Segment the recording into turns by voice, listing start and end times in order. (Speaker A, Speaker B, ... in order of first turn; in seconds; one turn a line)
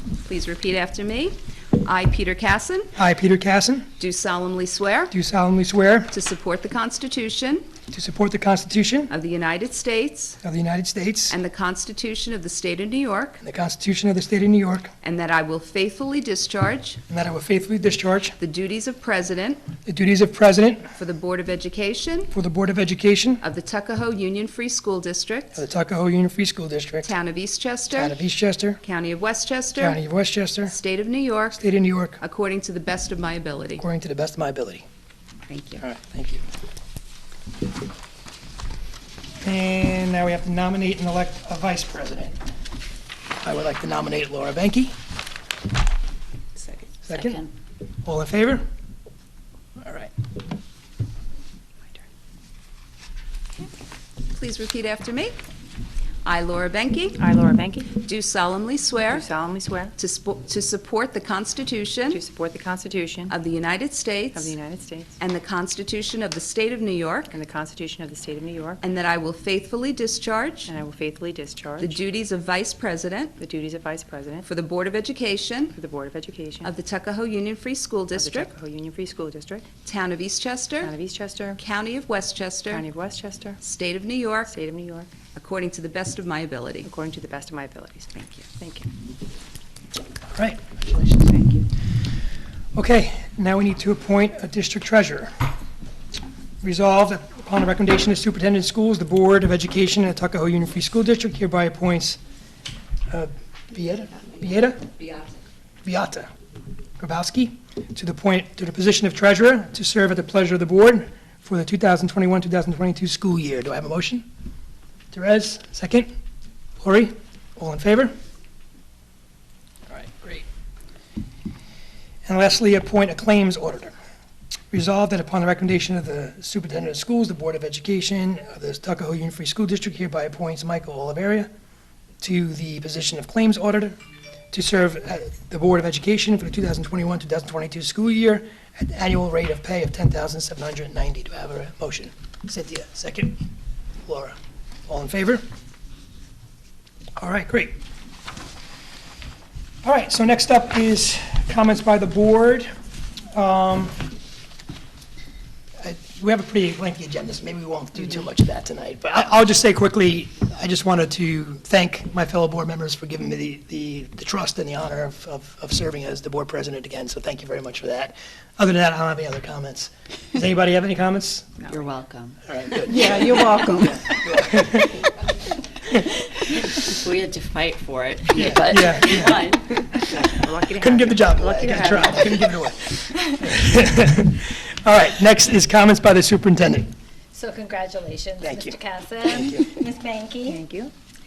Speaker A: 0.4-1.3
Speaker A: 1.9-2.9
Speaker B: 2.9-3.9
Speaker A: 4.0-5.1
Speaker B: 5.1-6.1
Speaker A: 6.1-7.6
Speaker B: 7.9-9.1
Speaker A: 9.1-10.3
Speaker B: 10.4-11.3
Speaker A: 11.3-13.3
Speaker B: 13.4-14.9
Speaker A: 15.0-17.0
Speaker B: 17.1-18.3
Speaker A: 18.4-19.6
Speaker B: 19.9-20.9
Speaker A: 21.0-22.3
Speaker B: 22.3-23.4
Speaker A: 23.4-25.6
Speaker B: 25.5-27.1
Speaker A: 27.0-28.1
Speaker B: 27.9-28.8
Speaker A: 28.8-30.0
Speaker B: 29.7-30.7
Speaker A: 30.7-31.6
Speaker B: 31.6-32.2
Speaker A: 32.2-33.8
Speaker B: 33.8-34.8
Speaker C: 35.5-35.8
Speaker B: 35.8-36.4
Speaker B: 39.4-42.3
Speaker B: 43.4-44.9
Speaker C: 46.6-47.4
Speaker B: 47.0-47.5
Speaker B: 48.0-48.6
Speaker B: 49.8-50.1
Speaker A: 54.3-55.4
Speaker A: 56.2-57.2
Speaker D: 57.1-58.0
Speaker A: 58.0-59.2
Speaker D: 59.1-59.9
Speaker A: 60.0-62.2
Speaker D: 62.1-63.3
Speaker A: 63.3-64.5
Speaker D: 64.3-65.2
Speaker A: 65.2-67.3
Speaker D: 67.3-68.8
Speaker A: 68.8-70.7
Speaker D: 70.7-72.0
Speaker A: 71.8-73.3
Speaker D: 73.4-74.5
Speaker A: 74.4-75.7
Speaker D: 75.7-76.7
Speaker A: 76.6-78.5
Speaker D: 78.1-79.7
Speaker A: 80.0-80.9
Speaker D: 80.8-81.6
Speaker A: 81.6-82.8
Speaker D: 82.7-83.6
Speaker A: 83.6-84.5
Speaker D: 84.5-85.2
Speaker A: 85.5-86.9
Speaker D: 86.8-88.9
Speaker B: 90.3-91.3
Speaker D: 91.2-91.7
Speaker B: 92.7-95.3
Speaker B: 96.6-102.2
Speaker B: 103.1-105.2
Speaker B: 105.8-106.3
Speaker B: 107.0-114.2
Speaker B: 115.1-116.1
Speaker B: 116.8-118.1
Speaker B: 119.9-120.5
Speaker B: 122.2-123.9
Speaker B: 124.7-131.5
Speaker B: 132.2-133.9
Speaker B: 134.5-143.3
Speaker B: 144.1-144.3
Speaker B: 144.9-145.4
Speaker B: 147.2-147.8
Speaker B: 149.8-152.7
Speaker B: 153.3-154.1
Speaker B: 155.8-171.7
Speaker C: 171.7-174.3
Speaker B: 172.4-175.0
Speaker C: 176.8-179.7
Speaker B: 178.3-186.9
Speaker D: 180.2-182.3
Speaker E: 187.3-190.6
Speaker B: 188.4-189.8
Speaker D: 190.4-190.9